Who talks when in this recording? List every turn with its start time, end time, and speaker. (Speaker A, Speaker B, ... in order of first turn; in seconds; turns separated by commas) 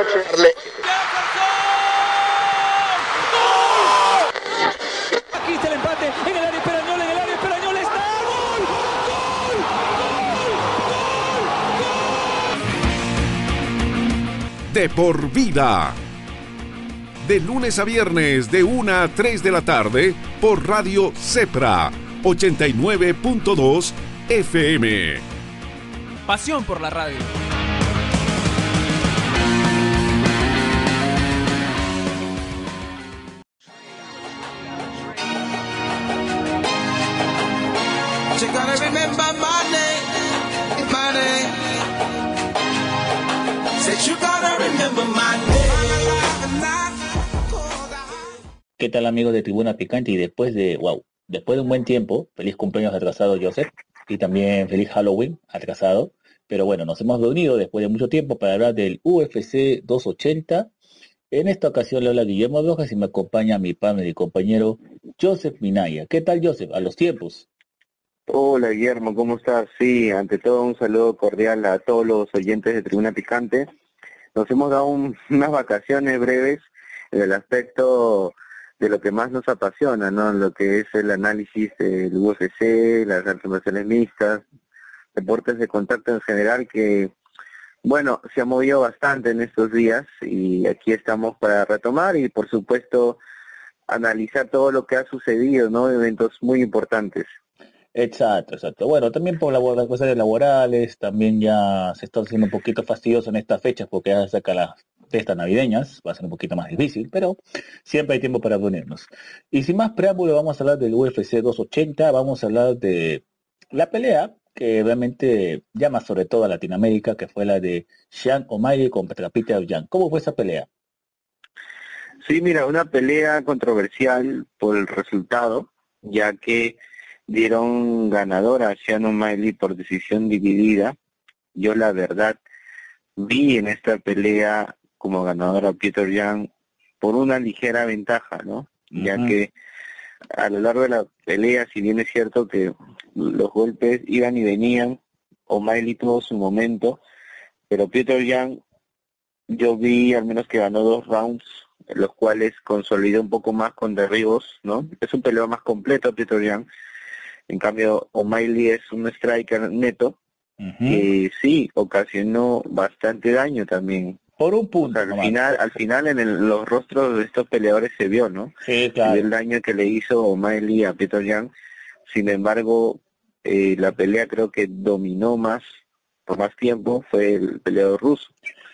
Speaker A: 0.2-2.8, Speaker A: 3.4-4.0, Speaker A: 5.3-8.9, Speaker B: 14.7-15.9, Speaker B: 17.2-25.2, Speaker A: 26.2-27.3, Speaker A: 38.3-40.1, Speaker A: 40.8-41.9, Speaker A: 43.8-48.4, Speaker C: 48.8-60.7, Speaker C: 61.3-67.5, Speaker D: 68.3-73.7, Speaker D: 74.3-84.4, Speaker D: 85.1-87.1, Speaker D: 87.8-93.2, Speaker D: 93.9-97.3, Speaker C: 97.9-120.7, Speaker D: 122.2-130.9, Speaker D: 131.5-132.4, Speaker D: 133.2-136.5, Speaker D: 137.0-139.5, Speaker C: 138.9-139.3, Speaker D: 140.3-147.0, Speaker D: 147.7-148.6, Speaker D: 149.5-156.7, Speaker D: 157.5-160.2, Speaker C: 160.6-161.1, Speaker D: 160.9-164.2, Speaker C: 164.4-165.4, Speaker D: 164.8-168.5, Speaker C: 168.6-169.3, Speaker D: 169.0-171.5, Speaker D: 172.1-175.6, Speaker D: 176.3-178.3